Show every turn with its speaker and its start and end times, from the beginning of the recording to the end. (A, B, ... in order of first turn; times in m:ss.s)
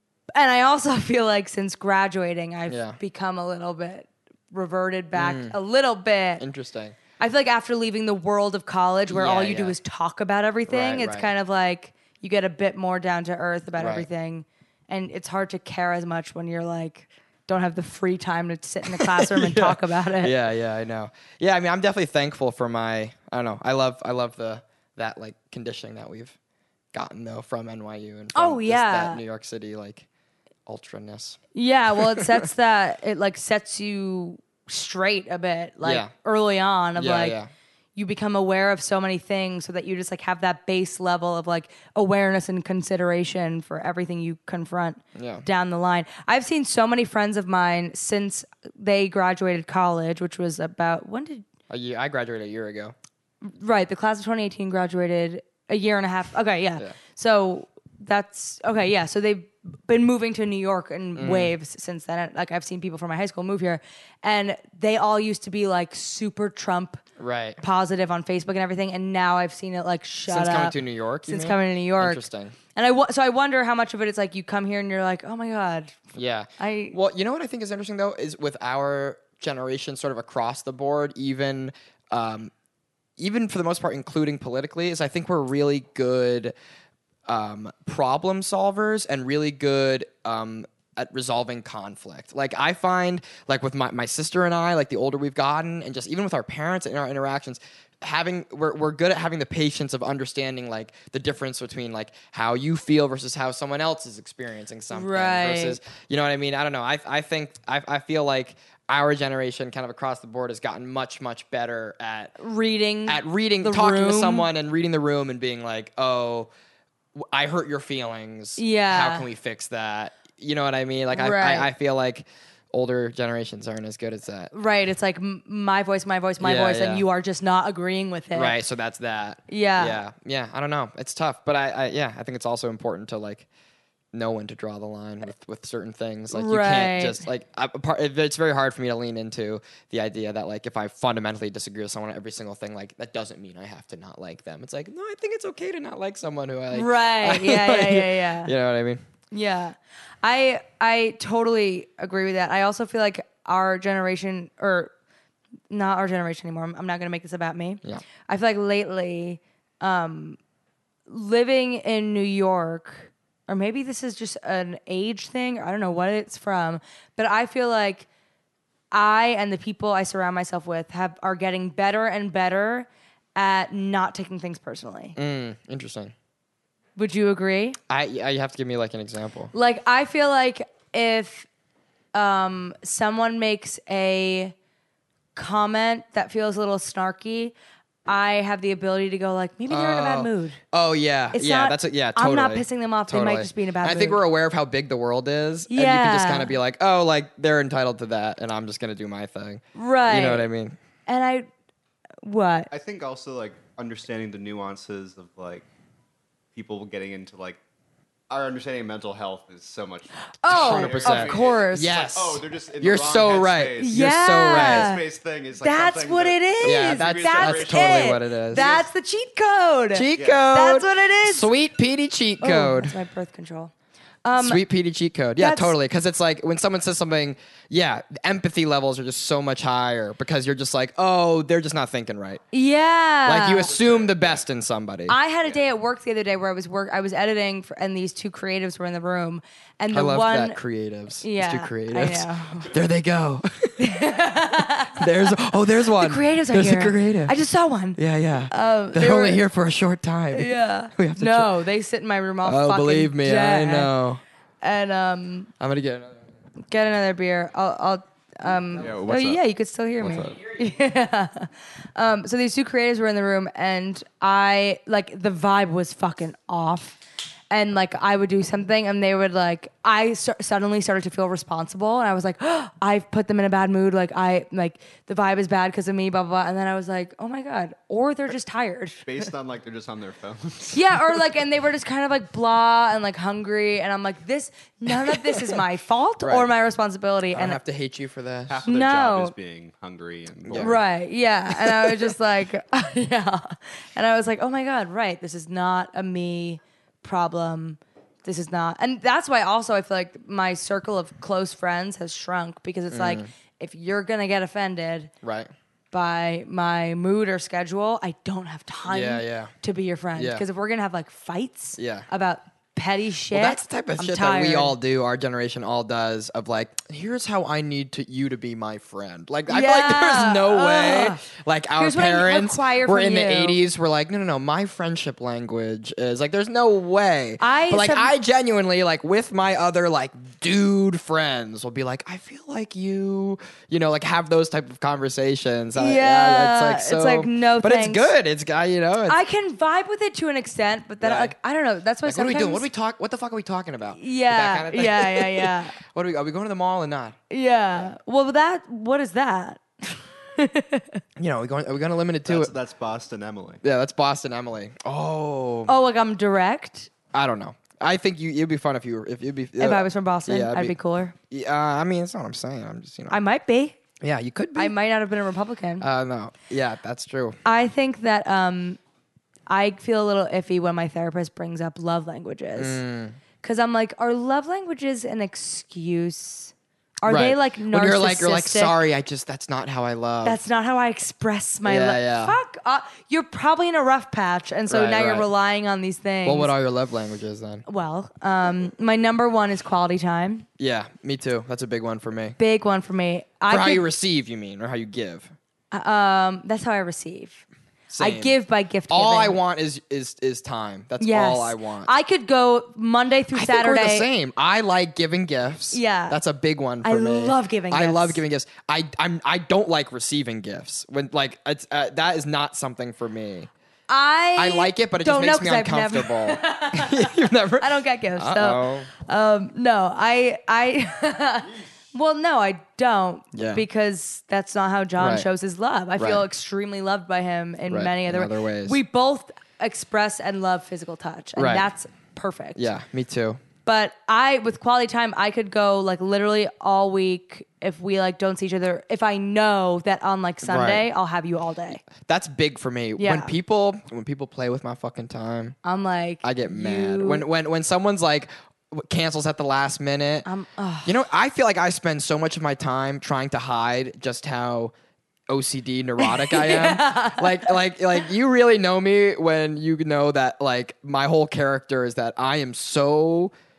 0:00.3-0:06.4 A
0:02.7-0:03.0 B
0:05.1-0:05.6 B
0:06.4-0:07.0 B
0:07.2-0:20.3 A
0:09.1-0:09.8 B
0:10.7-0:11.3 B
0:13.8-0:14.1 B
0:18.8-0:26.3 B
0:26.9-0:30.0 B
0:28.3-0:29.2 A
0:30.6-0:31.4 B
0:31.5-0:37.4 A
0:32.0-0:32.4 B
0:35.8-0:36.1 B
0:37.0-0:37.5 B
0:37.9-0:51.4 A
0:45.1-0:45.4 B
0:51.7-0:52.9 B
0:53.4-1:07.0 A
1:01.2-1:01.5 B
1:07.2-1:07.6 B
1:07.6-1:12.2 A
1:10.3-1:12.6 B
1:12.7-1:16.0 A
1:16.1-1:22.5 B
1:16.6-1:17.0 A
1:23.2-1:26.5 B
1:27.3-1:52.4 B
1:44.9-1:45.8 A
1:52.4-1:54.5 A
1:53.1-1:56.5 B
1:57.1-2:04.5 B
1:58.6-1:59.3 A
2:01.1-2:01.7 A
2:04.5-2:08.6 A
2:06.4-2:07.0 B
2:08.3-2:13.4 B
2:09.5-2:10.0 A
2:14.1-2:29.0 B
2:16.3-2:17.2 A
2:26.7-2:28.5 A
2:29.3-2:34.9 A
2:35.7-2:40.4 A
2:41.1-2:48.1 A
2:48.9-2:55.2 A
2:55.2-2:56.1 B
2:57.0-2:57.8 A
2:57.9-2:59.5 B
2:59.5-3:01.5 A
3:02.1-3:04.5 A
3:05.3-3:10.6 A
3:09.7-3:20.8 B
3:11.3-3:14.2 A
3:15.7-3:16.5 A
3:19.7-3:20.5 A
3:21.1-3:21.5 A
3:22.2-3:22.7 A
3:22.7-3:25.6 C
3:26.5-3:27.6 C
3:28.3-3:38.9 C
3:30.4-3:32.1 A
3:30.5-3:34.9 B
3:33.8-3:35.0 A
3:35.6-3:41.5 A
3:36.6-3:38.6 B
3:39.9-3:42.9 B
3:40.1-3:40.4 C
3:42.4-3:43.7 A
3:44.2-3:44.6 A
3:44.4-3:52.4 B
3:45.4-3:45.7 A
3:52.5-3:53.7 A
3:53.2-3:55.2 B
3:53.7-3:54.4 C
3:55.1-4:00.6 A
3:59.9-4:04.0 B
4:01.2-4:02.7 A
4:03.8-4:05.3 A
4:05.0-4:07.3 B
4:05.8-4:08.0 A
4:08.0-4:11.6 B
4:08.5-4:09.4 A
4:10.3-4:13.9 A
4:12.4-4:14.2 B
4:14.6-4:15.5 A
4:15.6-4:16.2 B
4:16.7-4:27.0 A
4:18.8-4:19.4 C
4:20.0-4:20.4 C
4:27.5-4:39.2 A
4:39.0-4:41.2 C
4:40.7-4:47.6 A
4:45.1-4:45.6 B
4:46.2-4:46.5 B
4:47.3-4:48.6 B
4:48.5-4:50.8 C
4:48.6-4:49.3 A
4:50.4-4:50.8 B
4:50.6-5:05.1 A
4:51.5-4:52.1 B
5:02.9-5:03.3 B
5:05.2-5:05.5 B
5:05.9-5:14.8 A
5:08.9-5:09.5 B
5:10.2-5:10.4 B
5:11.8-5:12.0 B
5:13.3-5:39.2 B
5:19.5-5:21.2 A
5:21.8-5:23.6 A
5:27.4-5:28.1 A
5:35.7-5:38.1 A
5:39.0-5:42.6 A
5:41.0-5:41.3 B
5:42.0-5:47.2 B
5:44.0-5:45.8 A
5:47.3-5:51.0 A
5:51.2-5:52.5 B
5:52.2-5:53.6 C
5:53.6-5:55.7 B
5:55.6-5:56.9 A
5:57.1-6:00.8 B
5:59.6-6:01.1 A
6:01.3-6:03.2 B
6:03.1-6:03.8 A
6:04.0-6:04.7 B
6:04.6-6:05.8 A
6:05.8-6:07.4 B
6:07.4-6:08.8 A
6:09.5-6:12.8 A
6:12.6-6:13.2 B
6:13.4-6:18.7 A
6:17.0-6:20.4 B
6:20.2-6:26.5 A
6:21.6-6:22.4 B
6:24.7-6:25.3 B
6:26.2-6:27.6 B
6:27.6-6:30.5 A
6:30.6-6:32.4 B
6:32.4-6:33.8 A
6:33.5-6:35.3 B
6:35.7-6:37.4 A
6:37.9-6:38.3 B
6:38.0-6:39.4 A
6:38.9-6:41.9 B
6:41.0-6:44.1 A
6:43.3-6:53.5 B
6:45.7-6:46.2 A
6:46.8-6:48.2 A
6:53.9-7:12.7 A
6:54.4-6:58.9 B
7:03.3-7:03.6 B
7:05.0-7:05.3 B
7:06.0-7:06.2 B
7:07.7-7:08.8 B
7:11.4-7:11.7 B
7:12.6-7:13.4 B
7:13.6-7:21.8 A
7:20.4-7:20.8 B
7:21.9-7:25.6 B
7:23.0-7:23.3 A
7:25.6-7:27.2 A
7:26.2-7:30.3 B
7:30.2-7:31.0 A
7:30.8-7:34.7 B
7:35.3-7:43.3 B
7:36.0-7:37.5 A